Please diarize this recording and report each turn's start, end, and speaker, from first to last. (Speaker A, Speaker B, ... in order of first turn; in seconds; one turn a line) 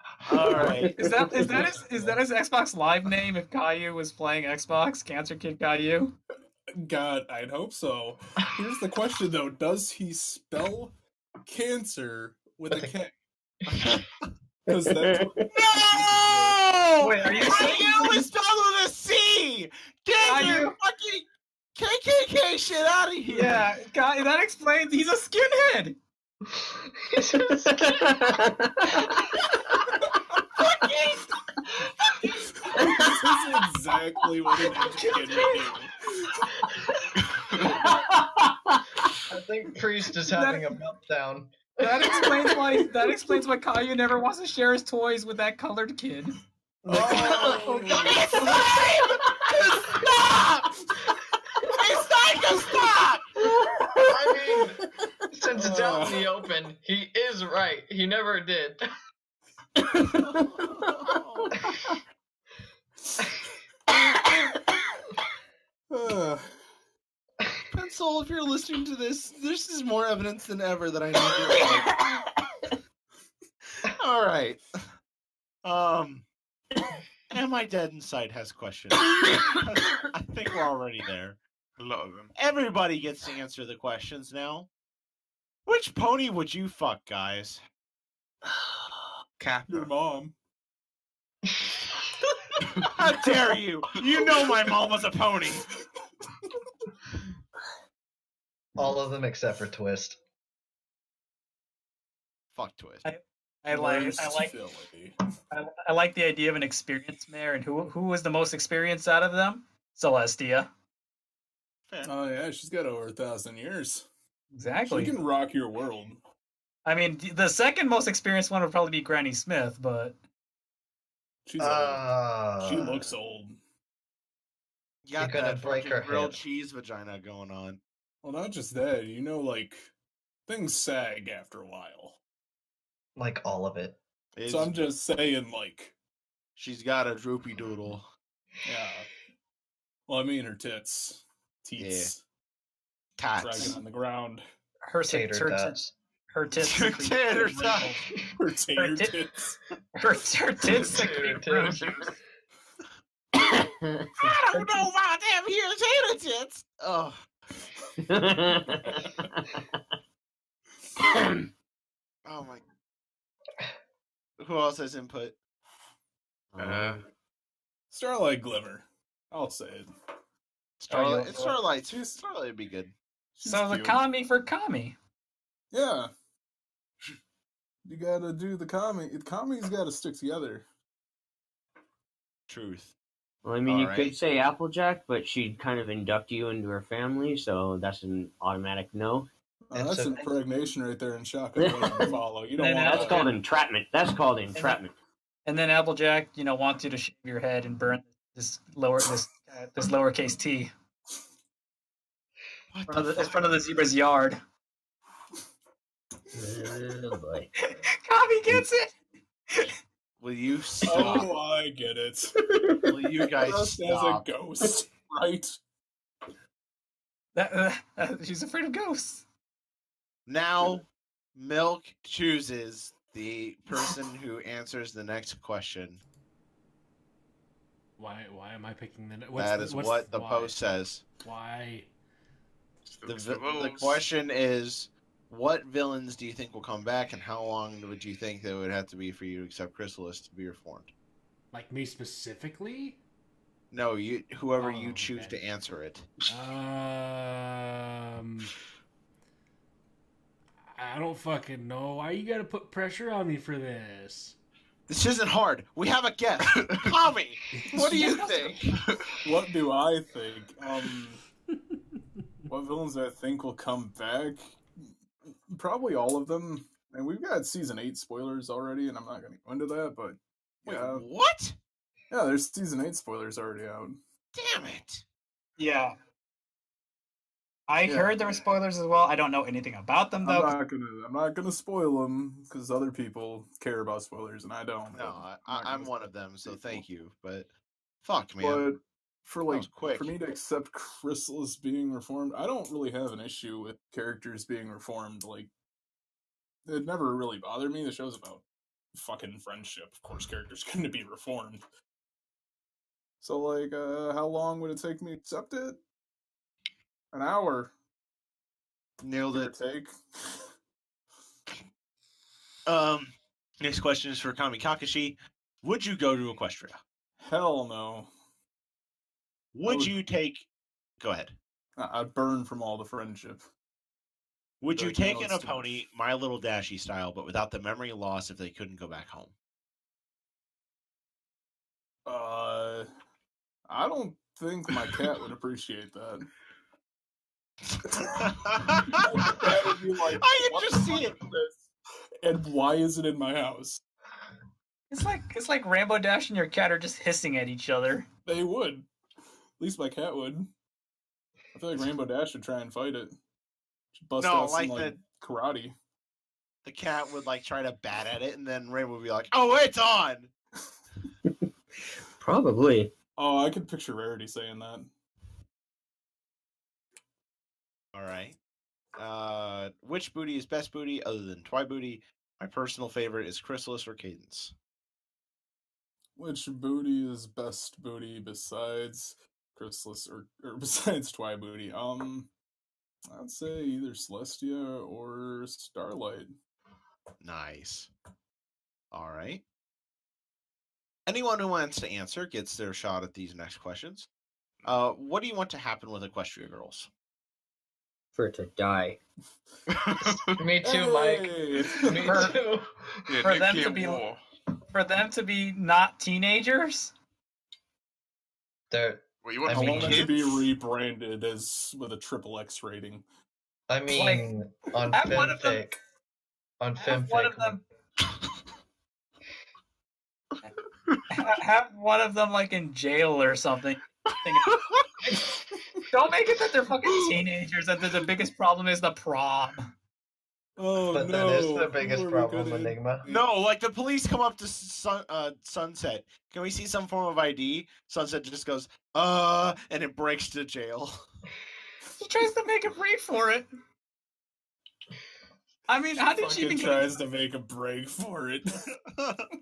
Speaker A: 0.3-1.0
Speaker B: 0.7-0.9
Speaker C: 1.0-6.2
Speaker D: 6.8-10.9
Speaker D: 11.5-13.1
Speaker B: 14.7-15.5
Speaker D: 14.7-16.6
Speaker A: 15.5-21.2
Speaker C: 17.0-18.3
Speaker C: 20.2-20.8
Speaker A: 21.8-23.7
Speaker C: 23.3-26.0
Speaker E: 27.1-28.1
Speaker B: 27.6-29.1
Speaker D: 32.7-36.3
Speaker B: 32.8-33.2
Speaker C: 34.8-35.7
Speaker E: 39.3-42.2
Speaker C: 40.3-40.9
Speaker C: 41.8-46.4
Speaker E: 46.8-48.0
Speaker D: 46.9-48.6
Speaker A: 47.0-50.7
Speaker A: 51.7-53.3
Speaker B: 53.6-54.1
Speaker E: 54.1-54.8
Speaker E: 55.3-58.8
Speaker D: 55.5-56.4
Speaker A: 60.3-61.6
Speaker D: 65.9-66.5
Speaker A: 67.7-72.0
Speaker A: 73.9-74.6
Speaker A: 75.6-76.2
Speaker A: 77.3-81.4
Speaker F: 81.8-82.3
Speaker A: 82.3-84.7
Speaker A: 85.7-87.6
Speaker F: 89.4-89.9
Speaker D: 89.7-90.3
Speaker A: 92.8-95.7
Speaker E: 98.8-100.2
Speaker A: 102.5-103.0
Speaker C: 103.0-104.5
Speaker D: 103.7-105.2
Speaker C: 105.5-110.7
Speaker D: 112.0-114.0
Speaker C: 114.5-115.2
Speaker D: 114.8-116.2
Speaker C: 116.9-120.2
Speaker D: 121.5-123.6
Speaker E: 121.6-123.1
Speaker A: 125.0-127.8
Speaker E: 125.2-126.4
Speaker D: 128.2-129.9
Speaker D: 130.5-132.2
Speaker E: 133.2-134.0
Speaker A: 134.4-134.8
Speaker D: 134.5-135.9
Speaker A: 136.6-138.1
Speaker D: 138.7-139.1
Speaker D: 140.1-142.2
Speaker A: 141.8-142.1
Speaker A: 143.2-143.8
Speaker D: 143.4-144.4
Speaker C: 144.8-148.1
Speaker E: 145.1-145.9
Speaker A: 146.5-147.9
Speaker D: 148.4-149.6
Speaker C: 148.8-149.2
Speaker C: 150.0-152.1
Speaker E: 150.9-152.0
Speaker B: 153.4-154.1
Speaker A: 154.2-157.2
Speaker B: 158.0-159.8
Speaker B: 161.1-161.5
Speaker A: 162.2-162.6
Speaker A: 164.4-165.3
Speaker A: 166.5-167.0
Speaker F: 166.6-167.0
Speaker D: 167.9-169.9
Speaker A: 170.8-172.9
Speaker C: 170.9-171.6
Speaker D: 171.9-172.2
Speaker D: 173.4-174.0
Speaker C: 173.4-175.0
Speaker D: 175.7-176.1
Speaker D: 177.9-180.7
Speaker A: 182.5-182.9
Speaker B: 183.4-189.3
Speaker A: 183.7-184.2
Speaker D: 189.7-193.3
Speaker E: 189.7-190.2
Speaker B: 191.6-192.2
Speaker C: 192.6-193.3
Speaker B: 192.8-194.9
Speaker C: 194.6-194.8
Speaker C: 195.5-200.7
Speaker A: 202.7-203.5
Speaker C: 202.9-204.4
Speaker B: 206.3-207.5
Speaker C: 207.6-209.0
Speaker A: 210.2-211.3
Speaker D: 210.8-212.3
Speaker B: 210.9-211.3
Speaker B: 212.4-212.9
Speaker A: 212.9-214.3
Speaker D: 213.4-215.6
Speaker C: 217.3-219.2
Speaker A: 220.3-220.8
Speaker A: 221.3-226.0
Speaker G: 228.0-230.6
Speaker A: 229.3-231.1
Speaker G: 231.2-231.9
Speaker F: 232.9-234.0
Speaker A: 233.1-240.9
Speaker G: 241.5-243.0
Speaker A: 243.7-246.1
Speaker G: 244.6-245.4
Speaker G: 246.3-248.5
Speaker G: 250.8-254.4
Speaker A: 254.9-258.8
Speaker F: 256.6-256.9
Speaker D: 257.7-258.1
Speaker C: 257.8-258.6
Speaker D: 259.2-261.2
Speaker D: 262.5-264.5
Speaker D: 265.5-271.1
Speaker A: 270.6-271.6
Speaker D: 272.1-274.0
Speaker A: 274.4-275.0
Speaker C: 275.6-275.9
Speaker C: 277.7-280.6
Speaker D: 277.8-278.1
Speaker D: 280.2-286.8
Speaker A: 284.9-287.5
Speaker A: 288.0-288.7
Speaker D: 288.4-295.5
Speaker A: 289.5-290.1
Speaker D: 296.7-298.4
Speaker D: 298.9-301.6
Speaker D: 303.2-305.8
Speaker D: 307.1-307.7
Speaker A: 309.0-309.5
Speaker D: 309.3-310.4
Speaker A: 312.7-316.8
Speaker D: 317.2-318.1
Speaker A: 319.5-320.5
Speaker D: 319.6-319.9
Speaker A: 321.0-321.4
Speaker D: 321.8-323.4
Speaker A: 324.6-329.3
Speaker D: 324.7-325.7
Speaker D: 332.1-332.9
Speaker D: 333.7-336.3
Speaker A: 337.7-339.6
Speaker D: 338.0-338.2
Speaker D: 338.9-341.6
Speaker A: 340.1-341.2
Speaker D: 342.2-343.8
Speaker C: 344.9-348.1
Speaker D: 348.3-348.9
Speaker D: 349.6-350.5
Speaker D: 351.6-353.1
Speaker D: 353.9-355.7
Speaker A: 354.2-355.0
Speaker A: 356.6-360.3
Speaker B: 362.2-362.9
Speaker D: 363.2-364.9
Speaker A: 367.9-368.4
Speaker A: 369.0-374.5
Speaker D: 376.2-382.3
Speaker D: 383.1-386.3
Speaker A: 387.2-387.9
Speaker A: 388.9-389.4
Speaker A: 391.1-394.1
Speaker A: 394.6-396.9
Speaker B: 398.1-399.0
Speaker F: 399.7-400.4
Speaker E: 400.4-402.7
Speaker D: 400.6-402.4
Speaker F: 403.1-404.2
Speaker C: 403.2-404.1
Speaker C: 404.7-406.9
Speaker E: 408.7-410.1
Speaker F: 409.2-410.4
Speaker D: 409.5-413.0
Speaker A: 409.8-410.3
Speaker E: 413.7-415.8
Speaker C: 413.9-414.3
Speaker C: 414.9-415.6
Speaker E: 416.6-417.6
Speaker C: 416.8-417.6
Speaker C: 421.1-424.5
Speaker C: 425.9-429.7
Speaker D: 430.6-433.2
Speaker E: 430.9-433.0
Speaker A: 433.1-441.1
Speaker C: 442.0-443.5
Speaker C: 445.7-447.0
Speaker D: 446.2-448.7
Speaker A: 449.0-449.2